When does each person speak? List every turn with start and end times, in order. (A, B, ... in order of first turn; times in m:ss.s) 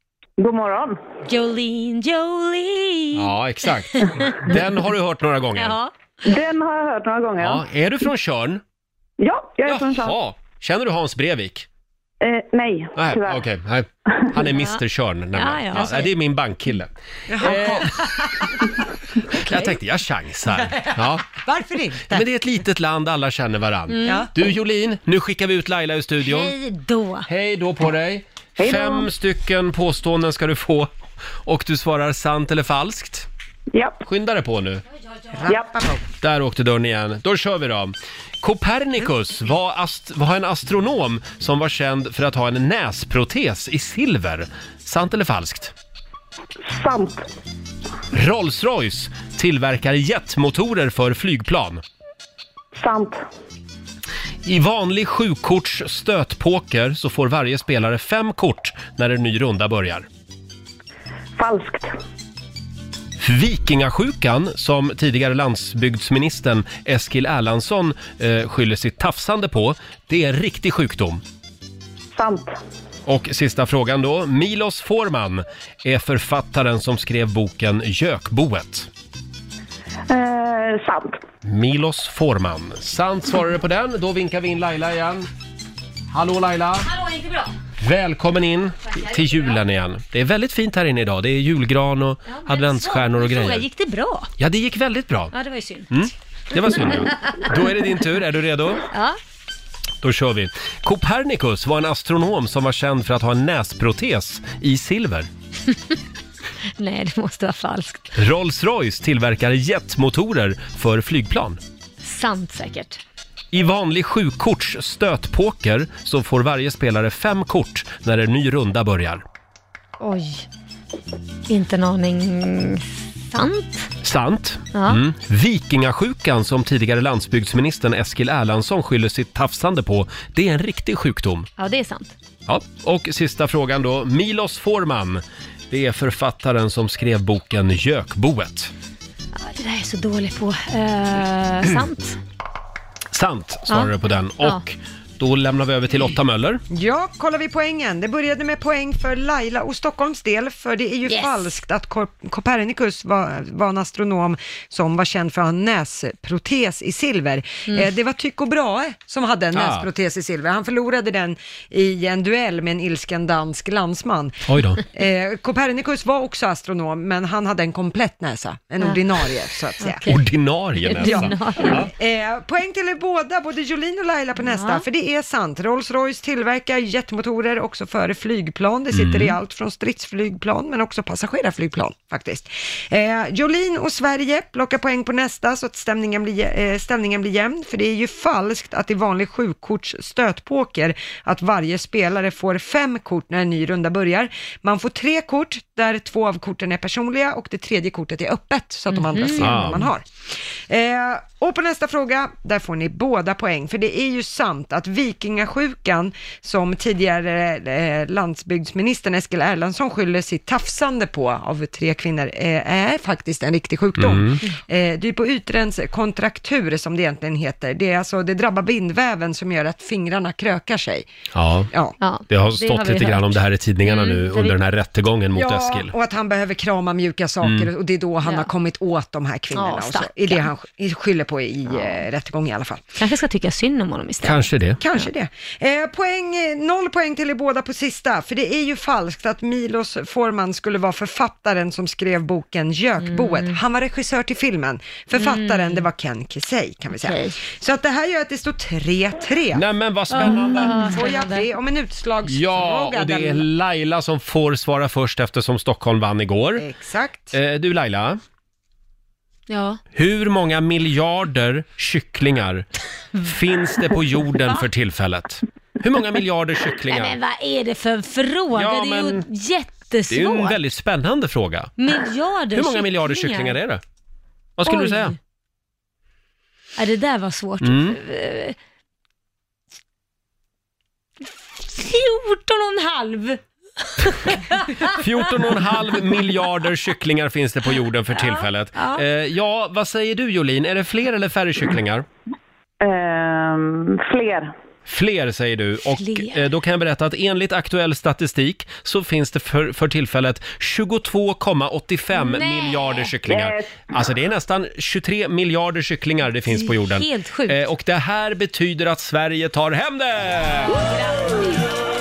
0:00.4-0:01.0 A
0:01.3-0:03.3 B
0:03.1-0:05.8 C
0:03.9-0:04.6 B
0:05.6-0:05.9 B
0:06.2-0:07.6 A
0:07.4-0:08.6 C
0:09.2-0:10.2 A
0:09.6-0:11.7 C
0:12.2-0:13.4 A
0:13.0-0:17.9 C
0:14.4-0:14.8 B
0:15.4-0:16.1 B
0:17.3-0:18.3 D
0:19.4-0:21.3 C
0:19.4-0:19.7 B
0:21.3-0:22.3 D
0:22.1-0:26.5 C
0:23.9-0:24.3 B
0:24.0-0:24.3 D
0:26.2-0:27.3 B
0:27.3-0:30.9 C
0:28.6-0:29.1 A
0:31.4-0:33.3 C
0:33.7-0:34.0 A
0:34.0-0:34.8 C
0:35.3-0:36.0 D
0:36.2-0:45.7 C
0:46.6-0:47.3 A
0:48.1-0:51.8 C
0:52.8-0:53.2 A
0:54.4-1:00.0 C
1:01.4-1:01.9 A
1:03.2-1:11.2 C
1:12.1-1:12.6 A
1:13.0-1:18.9 C
1:20.1-1:21.2 A
1:21.4-1:25.3 C
1:26.1-1:26.9 C
1:26.8-1:27.5 B
1:27.8-1:33.6 C
1:32.3-1:34.3 B
1:34.4-1:35.3 C
1:35.3-1:35.9 B
1:35.9-1:38.9 C
1:36.6-1:37.6 B
1:38.9-1:39.2 B
1:40.0-1:45.3 C
1:45.7-1:45.9 B
1:46.8-1:48.1 B
1:48.2-1:51.6 C
1:52.0-1:53.0 B
1:53.5-1:59.2 C
2:00.0-2:00.4 B
2:01.5-2:03.9 B
2:04.0-2:11.5 C
2:04.7-2:05.0 B
2:11.6-2:12.1 B
2:12.5-2:18.7 C
2:19.3-2:22.2 B
2:23.1-2:26.6 C
2:23.7-2:24.6 B
2:26.7-2:50.0 D
2:31.1-2:31.5 B
2:39.5-2:39.9 C
2:44.4-2:44.8 C
2:49.8-2:50.2 B
2:50.1-2:51.9 C
2:50.8-2:51.9 B
2:51.0-2:51.3 D
2:51.9-3:41.1 D
2:54.4-2:54.8 B
2:58.9-2:59.3 C
3:18.9-3:19.7 B
3:19.4-3:19.9 C
3:34.0-3:34.4 C
3:41.3-3:41.7 C
3:41.7-3:42.0 D
3:42.0-3:44.6 B
3:42.3-3:45.9 C
3:45.3-3:52.9 D
3:47.4-3:47.7 C
3:49.6-3:50.5 B
3:51.7-3:52.0 B
3:53.0-3:55.0 B
3:54.2-3:54.8 C
3:54.8-4:09.6 D
4:03.0-4:03.6 B
4:05.2-4:05.9 B
4:07.0-4:07.4 B
4:09.5-4:10.9 C
4:10.1-4:11.4 B
4:10.2-4:13.5 D
4:12.3-4:16.6 C
4:16.6-4:17.4 D
4:17.3-4:18.2 C
4:19.5-4:19.8 B
4:19.9-4:22.7 C
4:23.2-4:27.2 C
4:26.9-4:30.6 B
4:28.5-4:29.3 C
4:30.1-4:31.8 C
4:31.8-4:33.6 B
4:32.5-4:33.8 C
4:34.6-4:35.2 C
4:34.6-4:35.1 B
4:36.8-4:38.6 B
4:37.6-4:38.0 C
4:41.6-4:44.9 B
4:44.8-4:52.0 C
4:48.1-4:49.0 B
4:52.8-4:54.5 A
4:54.9-5:10.8 C
4:55.9-4:56.5 B
5:02.1-5:03.1 B
5:03.3-5:03.7 A
5:06.4-5:07.6 B
5:10.8-5:11.6 B